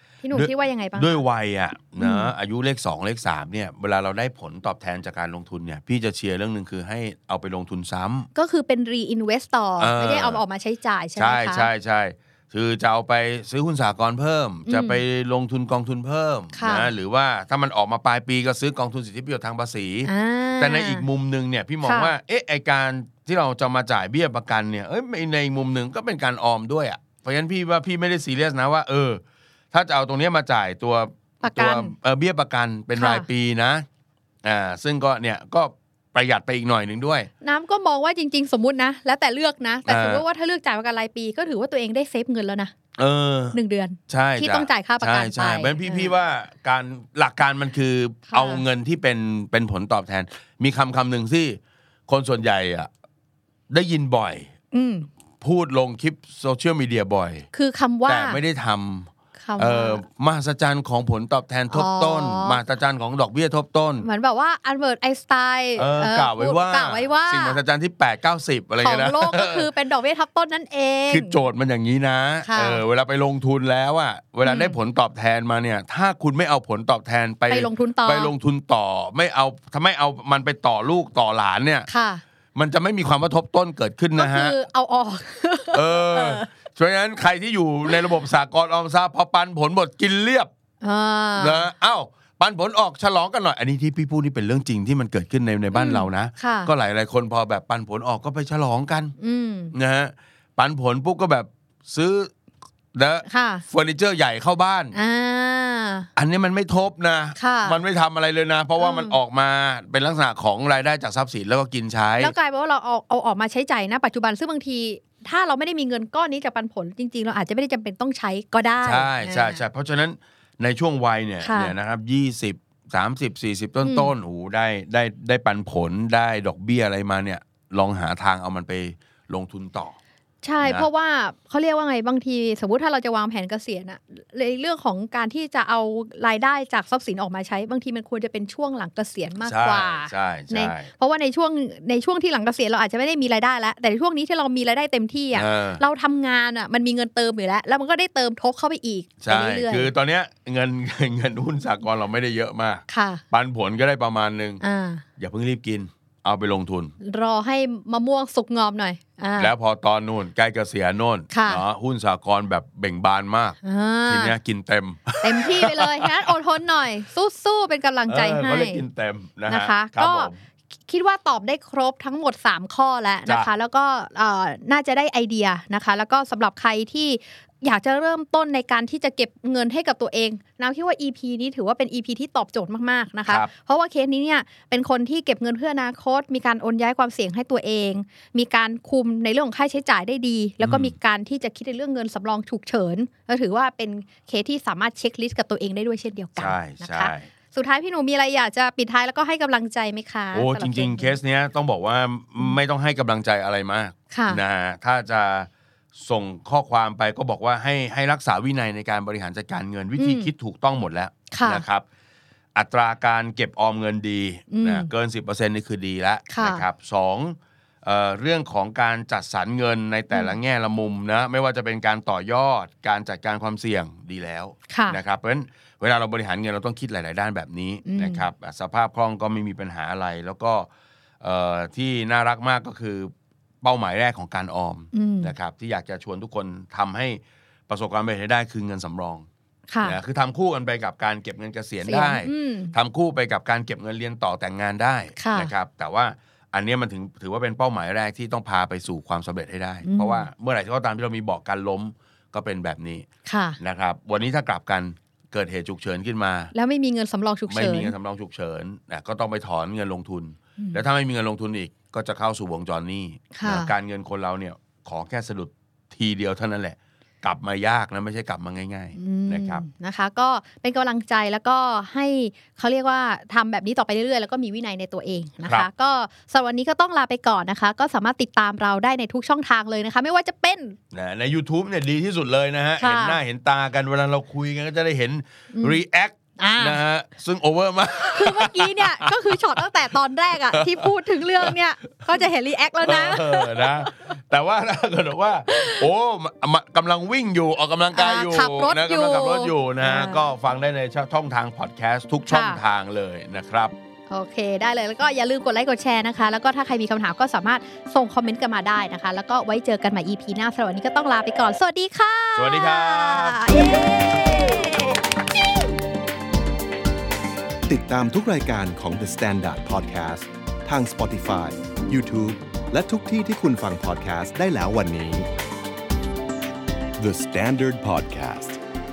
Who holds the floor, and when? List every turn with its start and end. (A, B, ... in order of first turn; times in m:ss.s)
0:00.2-0:01.2 A
0:00.3-0:08.3 B
0:02.0-0:02.3 A
0:08.3-0:11.7 A
0:09.8-0:10.4 B
0:11.2-0:29.2 B
0:14.7-0:15.0 A
0:16.5-0:16.9 A
0:20.0-0:21.0 A
0:21.8-0:22.1 A
0:29.7-0:33.8 B
0:31.4-0:31.9 A
0:33.0-0:33.3 A
0:34.4-0:37.3 B
0:37.4-0:42.7 A
0:39.8-0:40.2 B
0:43.0-0:43.6 B
0:43.5-0:46.1 A
0:44.1-0:52.9 B
0:48.3-0:48.6 A
0:53.7-0:54.5 B
0:54.7-0:55.1 A
0:55.4-0:57.5 B
0:57.5-0:58.4 A
0:58.0-1:04.1 B
0:59.4-1:00.0 A
1:01.7-1:02.6 A
1:04.0-1:07.6 A
1:05.8-1:09.7 B
1:08.8-1:11.4 A
1:11.1-1:21.9 B
1:12.4-1:12.8 A
1:14.4-1:14.8 A
1:17.5-1:18.3 A
1:21.9-1:22.2 A
1:22.5-1:24.5 B
1:24.2-1:26.5 A
1:25.7-1:30.5 B
1:30.8-1:31.7 A
1:31.4-1:39.1 B
1:35.7-1:36.7 A
1:39.2-1:39.7 A
1:39.7-1:42.3 B
1:42.9-1:45.0 B
1:43.2-1:43.6 A
1:44.9-1:46.1 A
1:46.2-1:52.3 B
1:47.4-1:47.8 A
1:48.8-1:49.2 A
1:52.2-1:59.6 A
1:58.8-2:10.0 B
2:01.4-2:01.7 A
2:03.8-2:04.1 A
2:10.4-2:29.9 A
2:10.6-2:10.9 B
2:19.4-2:20.9 B
2:25.3-2:25.8 B
2:29.2-2:34.6 B
2:32.9-2:33.2 A
2:34.6-2:35.0 A
2:35.2-2:36.9 B
2:37.0-2:39.5 A
2:39.4-2:46.3 B
2:41.3-2:41.6 A
2:43.6-2:44.4 A
2:45.2-2:48.8 A
2:48.1-2:50.4 B
2:49.5-2:50.3 A
2:50.9-3:21.2 A
3:10.6-3:10.9 B
3:16.4-3:17.3 B
3:20.3-3:31.8 B
3:24.1-3:24.4 A
3:30.0-3:30.3 A
3:31.3-3:31.6 A
3:32.5-3:50.7 B
3:34.5-3:34.9 A
3:36.3-3:36.6 A
3:44.7-3:45.0 A
3:47.8-3:48.2 A
3:51.2-3:59.3 B
3:54.9-3:55.3 A
3:59.7-4:00.0 A
3:59.8-4:13.0 B
4:01.8-4:02.7 A
4:05.2-4:05.5 A
4:09.8-4:10.3 A
4:13.2-4:13.6 A
4:13.6-4:16.5 B
4:16.5-4:17.9 A
4:17.5-4:29.6 B
4:23.3-4:23.7 A
4:29.0-4:40.8 A
4:35.4-4:35.7 B
4:40.9-4:49.7 B
4:42.8-4:43.2 A
4:45.5-4:45.8 A
4:46.4-4:46.8 A
4:48.1-4:53.7 A
4:50.3-4:51.5 B
4:52.8-5:03.7 B
4:55.5-4:55.8 A
4:57.9-5:00.2 A
5:02.3-5:02.6 A
5:04.1-5:15.0 A
5:12.4-5:14.5 B
5:17.7-5:25.3 C
5:27.0-5:28.6 C